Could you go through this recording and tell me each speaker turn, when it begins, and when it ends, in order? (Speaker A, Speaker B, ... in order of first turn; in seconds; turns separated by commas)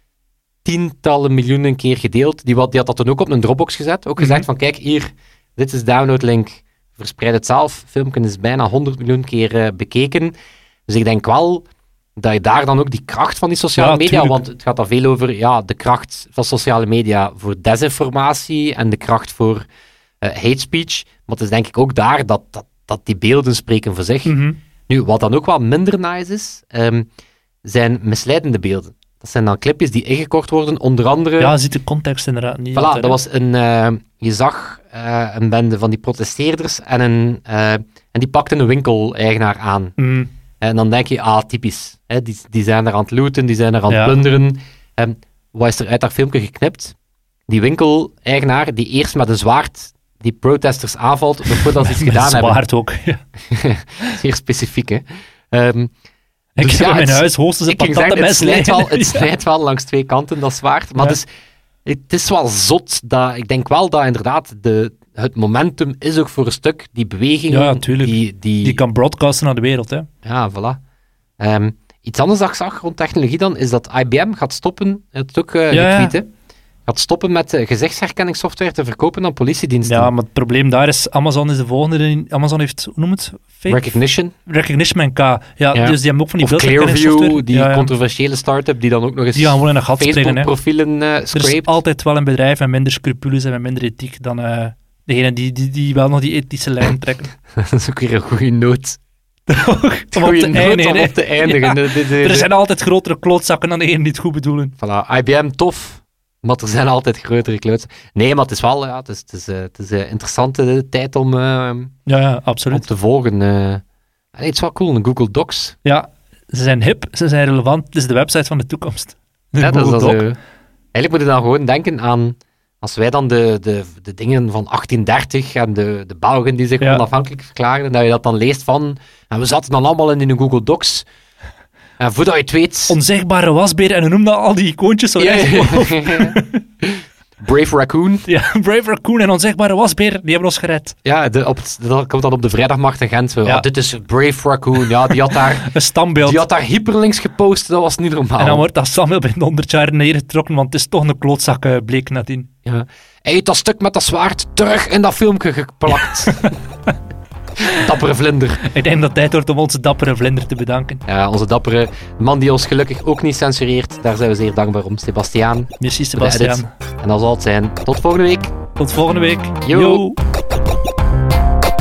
Speaker A: 0.6-10.3, Speaker B: 4.2-4.4, Speaker A: 10.9-11.6, Speaker A: 12.2-19.6, Speaker B: 13.8-14.4, Speaker A: 20.2-24.3, Speaker B: 24.2-24.6, Speaker A: 24.9-27.1, Speaker A: 27.6-31.5, Speaker B: 31.4-33.2, Speaker A: 32.7-39.9, Speaker B: 40.0-40.3, Speaker A: 40.6-46.9, Speaker B: 43.9-44.2, Speaker A: 47.5-52.6, Speaker B: 51.5-53.2, Speaker A: 53.5-55.9, Speaker B: 56.6-59.3, Speaker A: 56.6-61.3, Speaker A: 61.8-68.8, Speaker B: 67.5-70.1, Speaker A: 70.2-70.8, Speaker A: 71.4-76.3, Speaker B: 75.7-76.1, Speaker A: 76.9-80.1, Speaker B: 79.8-83.8, Speaker A: 83.7-84.3, Speaker B: 84.5-87.9, Speaker A: 85.7-91.8, Speaker B: 89.3-90.5, Speaker B: 91.3-97.3, Speaker A: 97.5-99.0, Speaker B: 99.5-104.7, Speaker A: 100.1-102.5, Speaker A: 104.8-111.9, Speaker B: 112.0-112.9, Speaker A: 112.7-113.8, Speaker A: 114.3-115.8, Speaker B: 115.8-120.2, Speaker A: 119.6-120.4, Speaker A: 120.9-131.1, Speaker A: 132.0-133.0, Speaker B: 132.9-136.6, Speaker A: 135.2-138.3, Speaker B: 138.3-140.9, Speaker A: 141.0-148.6, Speaker B: 145.3-146.4, Speaker B: 148.4-152.5, Speaker A: 152.6-156.5, Speaker B: 156.3-156.6, Speaker A: 157.6-158.6, Speaker B: 158.6-161.0, Speaker A: 161.1-168.5, Speaker B: 165.8-166.7, Speaker B: 168.8-170.2, Speaker A: 169.6-170.0